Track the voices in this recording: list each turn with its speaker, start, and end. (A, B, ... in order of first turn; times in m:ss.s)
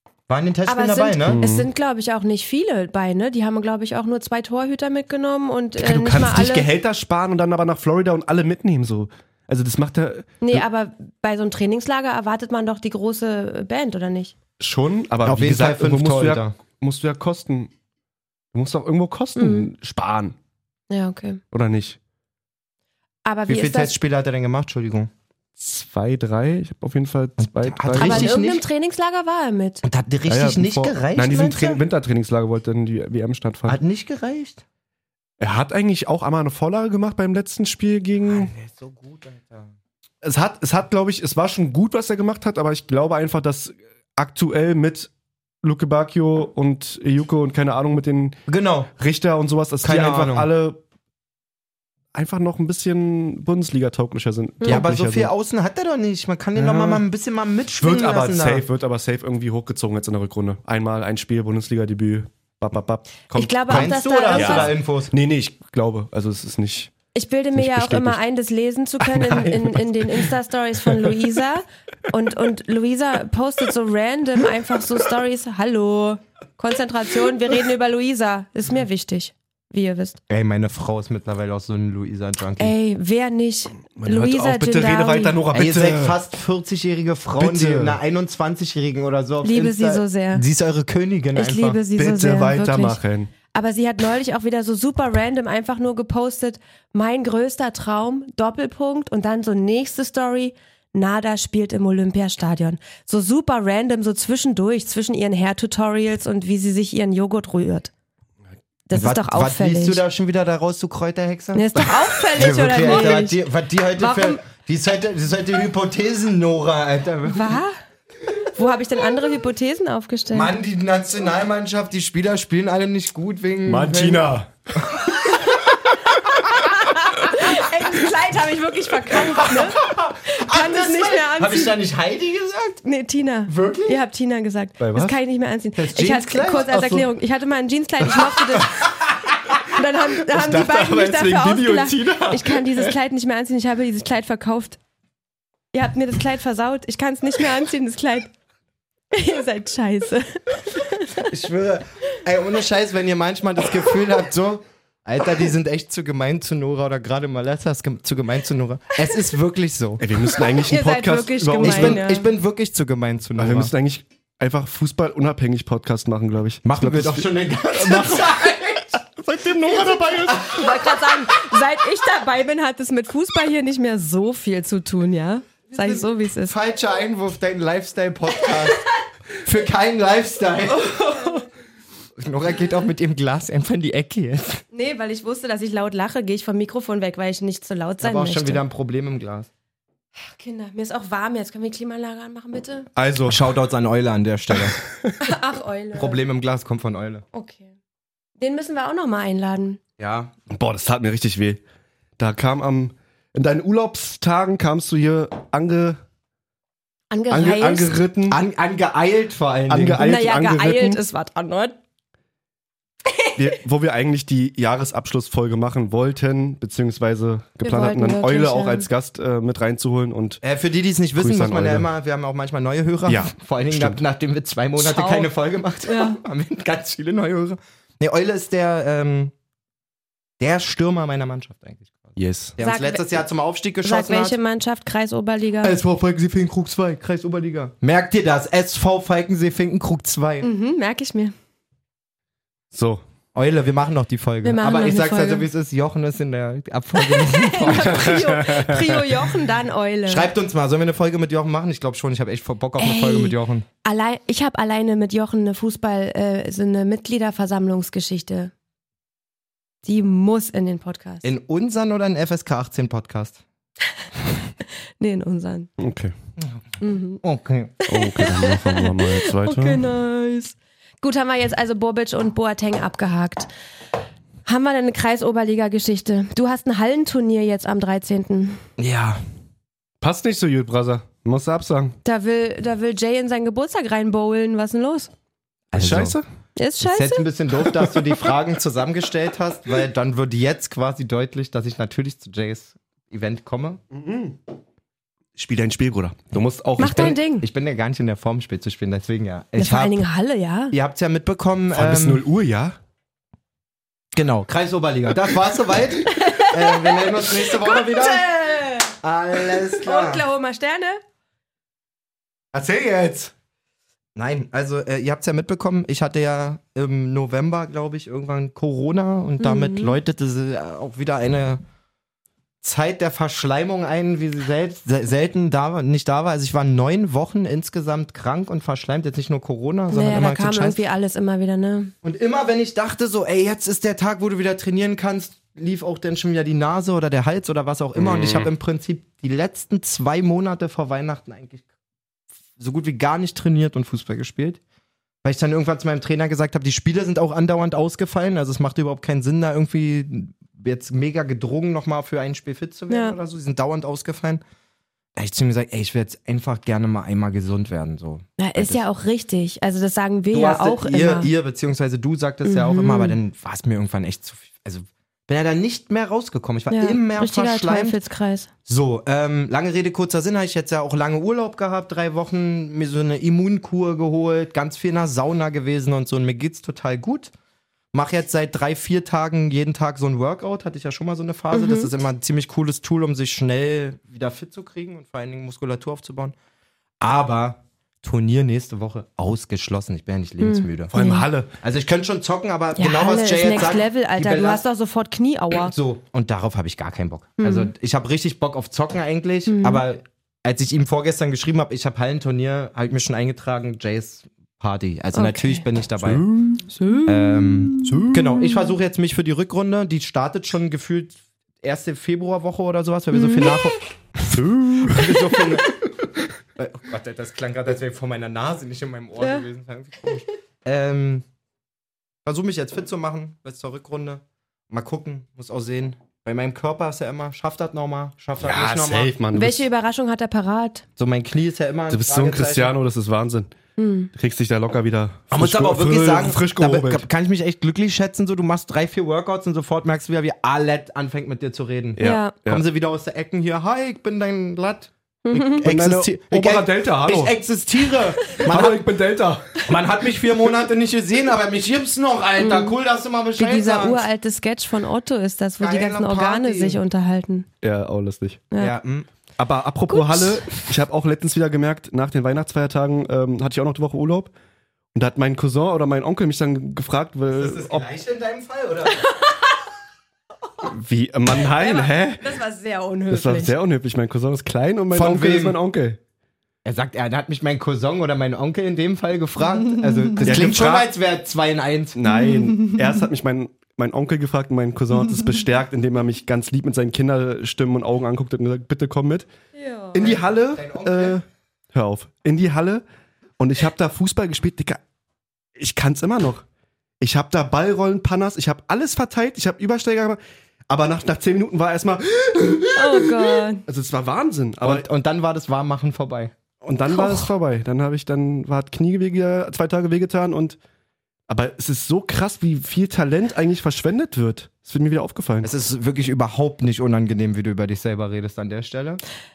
0:00.3-0:01.5 A
0:00.7-0:06.7 B
0:01.3-0:01.7 C
0:05.8-0:10.6 C
0:10.4-0:14.4 B
0:14.6-0:17.7 C
0:15.2-0:16.5 A
0:18.5-0:20.3 C
0:19.4-0:19.7 B
0:20.9-0:21.4 B
0:21.5-0:22.0 C
0:23.2-0:23.9 B
0:23.5-0:25.1 A
0:25.6-0:28.3 C
0:27.4-0:28.6 A
0:28.0-0:29.8 B
0:29.8-0:31.8 A
0:30.3-0:33.8 C
0:33.6-0:34.6 A
0:35.4-0:38.5 C
0:38.2-0:39.7 A
0:40.2-0:45.1 C
0:45.6-0:48.4 C
0:48.5-0:48.9 A
0:49.0-0:50.8 C
0:49.8-0:50.5 A
0:52.1-0:55.3 C
0:54.6-0:58.6 A
0:56.6-0:57.0 C
0:57.8-1:06.9 C
1:03.3-1:04.7 B
1:03.7-1:05.1 A
1:07.1-1:20.2 B
1:07.5-1:08.2 C
1:09.1-1:10.3 C
1:20.3-1:22.7 A
1:22.6-1:25.4 B
1:24.0-1:26.2 C
1:25.5-1:31.8 A
1:27.4-1:28.0 C
1:29.4-1:30.4 B
1:31.3-1:33.0 B
1:32.0-1:33.3 C
1:33.5-1:47.9 B
1:48.9-1:50.0 B
1:48.9-1:57.6 A
1:51.5-1:53.4 B
1:54.0-1:54.4 B
1:57.3-1:57.7 B
1:58.4-2:00.5 B
2:00.3-2:04.3 A
2:03.6-2:04.5 C
2:06.2-2:11.8 B
2:09.3-2:12.8 A
2:12.8-2:18.9 B
2:13.5-2:14.0 A
2:14.8-2:15.1 C
2:15.8-2:16.8 A
2:16.7-2:17.0 C
2:19.6-2:24.8 B
2:20.3-2:22.9 C
2:25.7-2:28.3 B
2:29.1-2:31.3 B
2:31.2-2:40.0 A
2:40.0-2:42.0 C
2:40.7-2:42.3 B
2:41.6-2:43.7 A
2:43.4-2:50.5 C
2:46.6-2:49.0 A
2:50.3-2:56.6 B
2:55.7-2:58.8 A
2:59.4-3:01.0 A
3:00.7-3:01.5 B
3:02.2-3:04.6 A
3:04.7-3:08.6 B
3:08.0-3:09.5 A
3:10.2-3:12.9 B
3:12.9-3:13.5 C
3:13.2-3:14.8 A
3:15.2-3:16.2 B
3:15.9-3:17.2 A
3:17.3-3:17.7 B
3:18.4-3:19.8 B
3:20.0-3:20.3 A
3:20.5-3:21.6 C
3:22.2-3:26.0 C
3:27.1-3:27.9 B
3:27.3-3:28.4 C
3:28.3-3:30.0 A
3:29.7-3:31.0 C
3:30.0-3:31.7 B
3:33.4-3:40.4 C
3:37.6-3:38.9 B
3:40.4-3:49.3 A
3:41.2-3:41.9 C
3:43.1-3:44.0 C
3:44.8-3:45.3 B
3:45.9-3:46.2 B
3:50.4-3:54.4 A
3:52.2-3:52.6 C
3:52.6-3:53.2 B
3:53.8-3:55.8 B
3:55.6-4:00.5 A
4:00.4-4:01.3 B
4:02.7-4:03.0 C
4:03.3-4:08.4 A
4:04.4-4:05.4 B
4:06.9-4:10.3 B
4:07.7-4:08.8 C
4:10.1-4:13.6 A
4:12.8-4:18.5 B
4:19.8-4:21.2 B
4:21.2-4:23.4 A
4:25.0-4:25.7 B
4:25.8-4:26.1 C
4:26.8-4:27.2 B
4:27.2-4:27.8 A
4:27.8-4:33.5 B
4:27.9-4:29.8 C
4:34.4-4:38.6 B
4:38.8-4:39.2 A
4:40.0-4:41.9 C
4:42.0-4:45.1 B
4:45.7-4:46.2 A
4:45.7-4:46.2 C
4:46.6-4:47.2 B
4:46.8-4:53.8 A
4:53.9-4:54.4 C
4:55.4-4:57.2 C
4:56.8-4:57.5 B
4:57.4-5:00.0 A
4:59.6-5:00.7 B
5:00.7-5:02.2 A
5:01.7-5:02.7 C
5:04.1-5:08.3 A
5:06.0-5:08.9 B
5:09.0-5:10.2 A
5:09.5-5:11.0 B
5:12.5-5:13.3 A
5:14.2-5:21.6 A
5:19.4-5:19.9 B
5:22.6-5:30.8 A
5:29.9-5:31.9 B
5:32.0-5:41.6 A
5:38.0-5:38.5 C
5:42.6-5:44.6 A
5:45.2-5:54.4 A
5:52.9-5:53.2 B
5:55.2-5:58.8 A
5:58.4-6:01.3 B
6:00.3-6:08.0 A
6:02.4-6:03.2 B
6:06.7-6:08.5 B
6:08.7-6:17.3 A
6:17.9-6:26.4 A
6:21.5-6:21.9 B
6:27.0-6:30.9 A
6:30.4-6:31.2 B
6:30.9-6:31.5 C
6:31.6-6:34.6 A
6:32.8-6:35.7 B
6:35.6-6:46.2 A
6:37.4-6:37.7 B
6:39.5-6:39.8 B
6:45.1-6:45.6 B
6:46.0-6:46.6 C
6:46.7-6:47.7 B
6:47.0-6:55.8 A
6:47.8-6:48.4 C
6:53.1-6:53.7 B
6:54.3-6:55.2 C
6:56.6-7:01.2 A
6:59.2-6:59.5 B
7:02.2-7:09.1 A
7:08.4-7:09.6 C
7:09.3-7:10.8 B
7:11.0-7:12.8 A
7:11.9-7:13.5 C
7:13.8-7:14.1 B
7:14.1-7:17.0 C
7:15.3-7:28.8 A
7:22.0-7:22.6 C
7:22.0-7:22.3 B
7:25.2-7:25.6 B
7:25.6-7:27.3 C
7:28.4-7:29.6 C
7:29.7-7:34.0 A
7:32.4-7:32.7 B
7:33.4-7:37.5 B
7:35.6-7:36.8 A
7:37.6-7:38.4 C
7:38.6-7:39.1 A
7:39.4-7:44.3 C
7:39.9-7:40.6 B
7:44.9-7:47.8 C
7:47.3-7:49.0 A
7:49.1-7:49.3 B
7:50.7-7:52.3 C
7:51.4-7:53.5 B
7:53.1-7:56.0 C
7:54.9-7:55.6 A
7:56.6-8:02.1 A
8:00.2-8:00.9 C
8:02.0-8:09.3 C
8:02.2-8:02.9 B
8:09.6-8:10.0 B
8:09.9-8:12.8 C
8:10.0-8:11.2 A
8:13.4-8:14.8 C
8:15.6-8:16.4 C
8:17.0-8:24.8 C
8:22.7-8:23.6 B
8:24.6-8:26.3 A
8:26.6-8:30.6 C
8:26.9-8:27.3 B
8:31.3-8:35.5 C
8:35.4-8:39.0 A